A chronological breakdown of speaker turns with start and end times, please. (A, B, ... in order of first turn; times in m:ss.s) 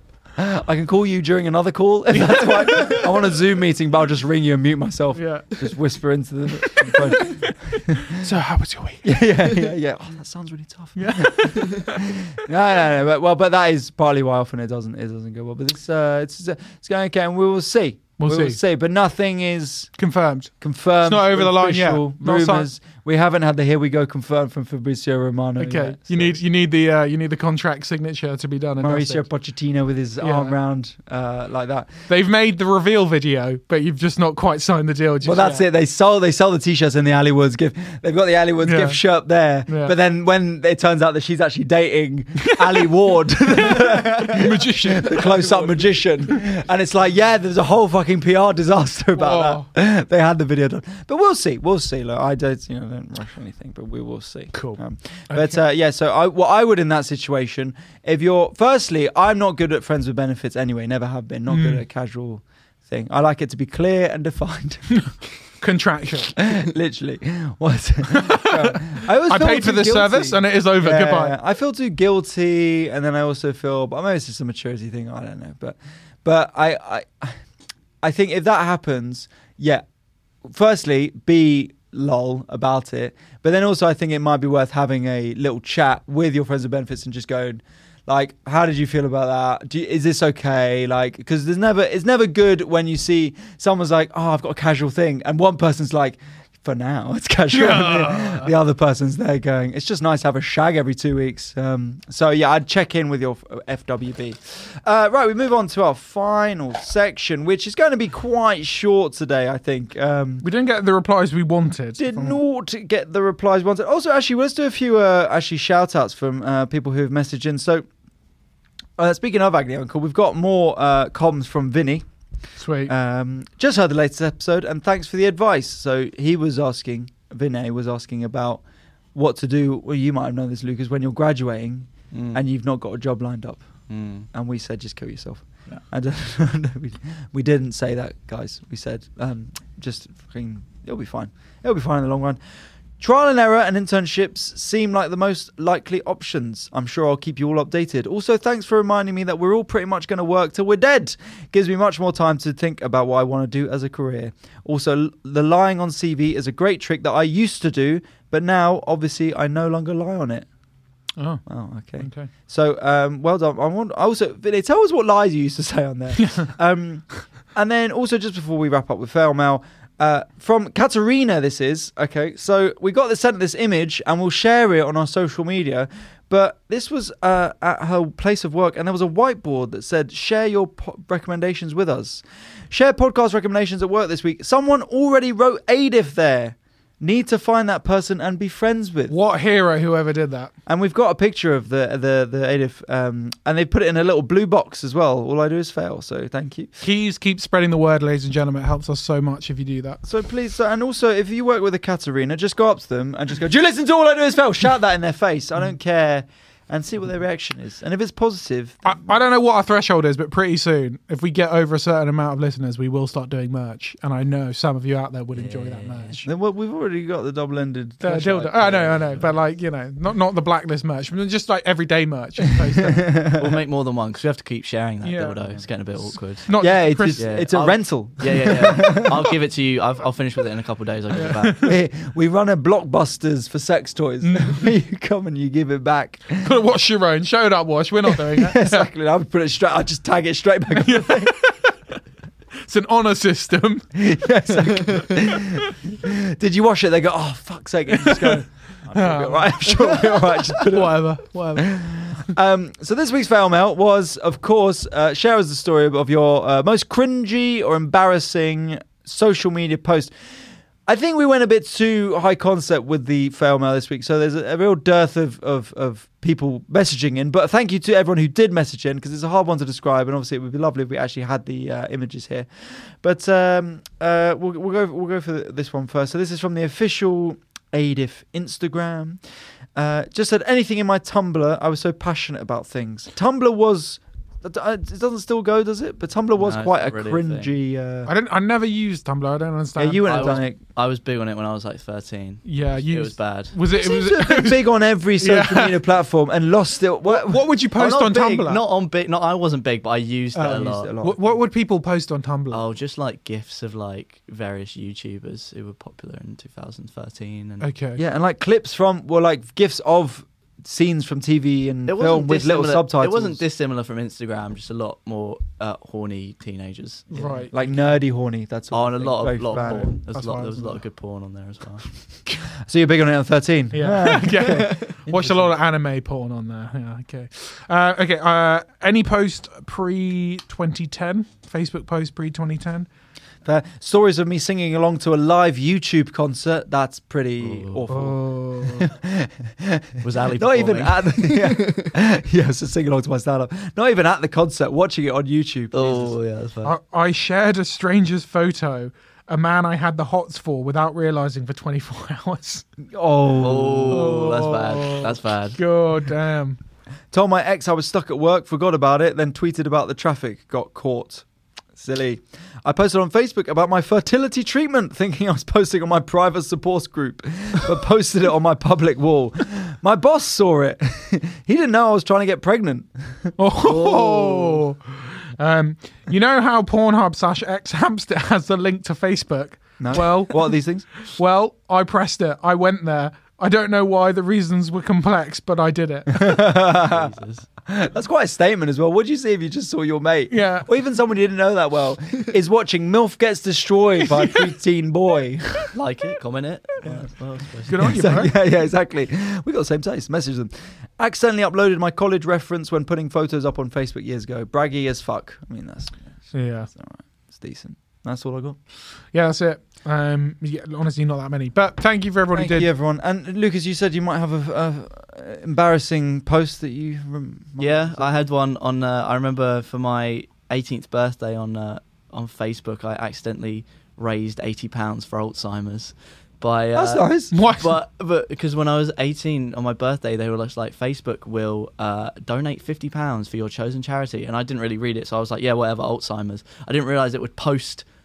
0:00.4-0:08.3 A
0:02.1-0:03.1 B
0:05.1-0:05.7 B
0:06.6-0:09.7 B
0:09.0-0:19.9 A
0:11.0-0:12.2 B
0:18.2-0:18.6 B
0:20.0-0:22.7 B
0:20.6-0:26.4 A
0:25.6-0:29.2 B
0:28.8-0:32.1 A
0:30.2-0:30.6 B
0:32.1-0:35.6 B
0:35.2-1:04.9 A
0:38.6-0:39.0 B
0:39.7-0:40.0 B
0:42.4-0:42.9 B
0:43.5-0:45.7 B
0:49.1-0:49.6 B
0:54.5-0:54.8 B
0:55.3-0:55.6 B
1:01.5-1:01.8 B
1:04.9-1:06.4 B
1:06.4-1:17.4 A
1:08.1-1:11.4 B
1:18.0-1:19.8 A
1:20.4-1:50.4 A
1:37.5-1:38.5 B
1:50.4-1:52.4 B
1:52.0-1:57.8 A
1:59.0-2:02.0 A
2:02.6-2:02.9 B
2:02.9-2:08.6 A
2:09.1-2:13.6 A
2:12.1-2:12.4 C
2:13.9-2:14.3 C
2:14.3-2:22.4 A
2:23.0-2:40.5 A
2:41.2-2:41.4 B
2:41.4-3:09.1 A
2:42.0-2:42.3 B
2:46.2-2:46.5 B
3:09.1-3:10.5 B
3:10.6-3:16.7 A
3:16.8-3:20.0 B
3:20.0-3:29.2 A
3:28.8-3:36.2 B
3:35.3-3:36.2 C
3:36.2-3:39.3 A
3:38.0-3:43.1 B
3:42.8-3:43.6 A
3:43.4-3:46.5 C
3:45.0-3:45.6 B
3:46.4-3:47.4 B
3:46.6-3:49.3 A
3:47.1-3:51.6 C
3:51.1-3:51.8 B
3:51.6-3:56.5 A
3:54.2-3:54.7 B
3:56.4-3:58.9 B
3:58.1-4:01.3 A
4:00.7-4:02.0 B
4:02.6-4:03.9 B
4:03.9-4:11.0 A
4:04.6-4:05.7 B
4:07.9-4:12.3 B
4:11.6-4:20.1 A
4:20.9-4:39.2 A
4:39.8-4:48.1 A
4:46.4-4:47.5 C
4:48.1-4:50.3 B
4:49.8-4:50.6 A
4:50.0-4:53.5 C
4:52.4-4:54.6 B
4:53.7-4:57.5 A
4:55.2-4:55.8 B
4:57.0-4:58.6 B
4:57.7-5:00.9 C
5:00.3-5:02.6 B
5:00.4-5:01.2 A
5:02.5-5:07.7 C
5:07.6-5:08.0 B
5:08.0-5:13.4 A
5:11.8-5:17.3 C
5:17.1-5:17.6 B
5:17.1-5:19.9 A
5:18.7-5:21.8 C
5:19.5-5:20.8 B
5:22.6-5:25.6 A
5:23.7-5:32.9 B
5:24.5-5:24.8 C
5:33.4-5:46.1 A
5:37.4-5:37.8 C
5:37.9-5:38.9 B
5:40.0-5:41.9 C
5:45.7-5:46.7 C
5:46.6-5:52.6 B
5:52.9-5:54.1 A
5:53.4-5:55.6 C
5:53.9-5:56.6 B
5:57.1-6:13.4 A
6:13.4-6:26.5 B
6:13.6-6:14.6 C
6:19.8-6:20.8 A
6:26.1-6:27.1 A
6:26.8-6:27.4 C
6:27.6-6:35.7 A
6:30.3-6:30.7 B
6:35.7-6:37.8 C
6:37.7-6:38.3 B
6:37.7-6:48.6 A
6:46.3-6:46.7 B
6:49.1-6:52.7 B
6:52.3-6:58.3 A
6:57.6-7:17.8 C
7:06.7-7:07.3 A
7:07.3-7:07.8 B